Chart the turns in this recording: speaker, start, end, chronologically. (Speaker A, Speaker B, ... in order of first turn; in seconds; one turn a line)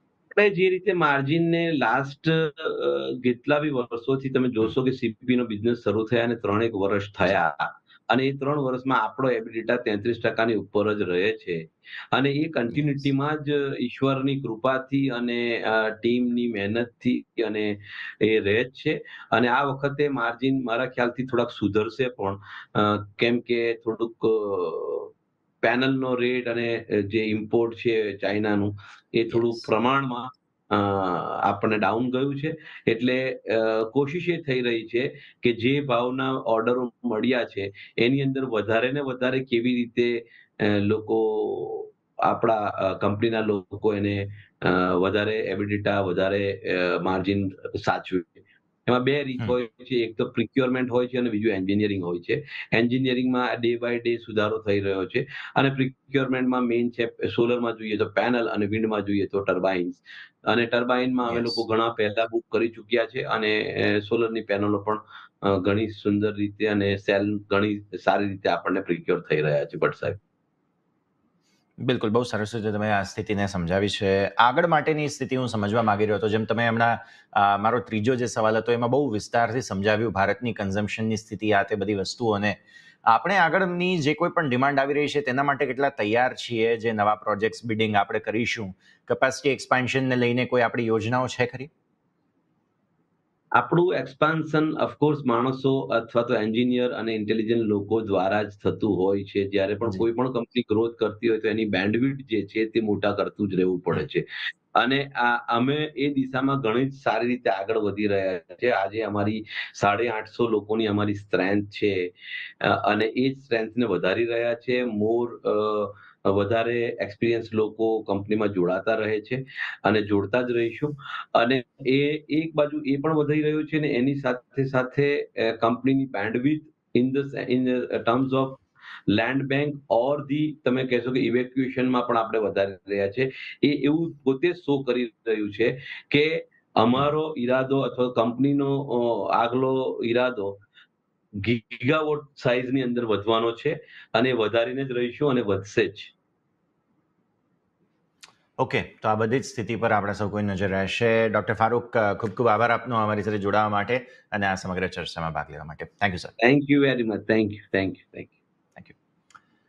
Speaker A: 0.4-25.1
Speaker B: 12.7-13.0
Speaker A: 25.6-70.2
Speaker B: 29.3-29.7
Speaker B: 61.3-61.6
Speaker B: 71.8-91.7
Speaker A: 93.6-112.1
Speaker A: 112.6-140.6
Speaker A: 141.4-146.1
Speaker B: 148.6-156.3
Speaker A: 156.4-158.3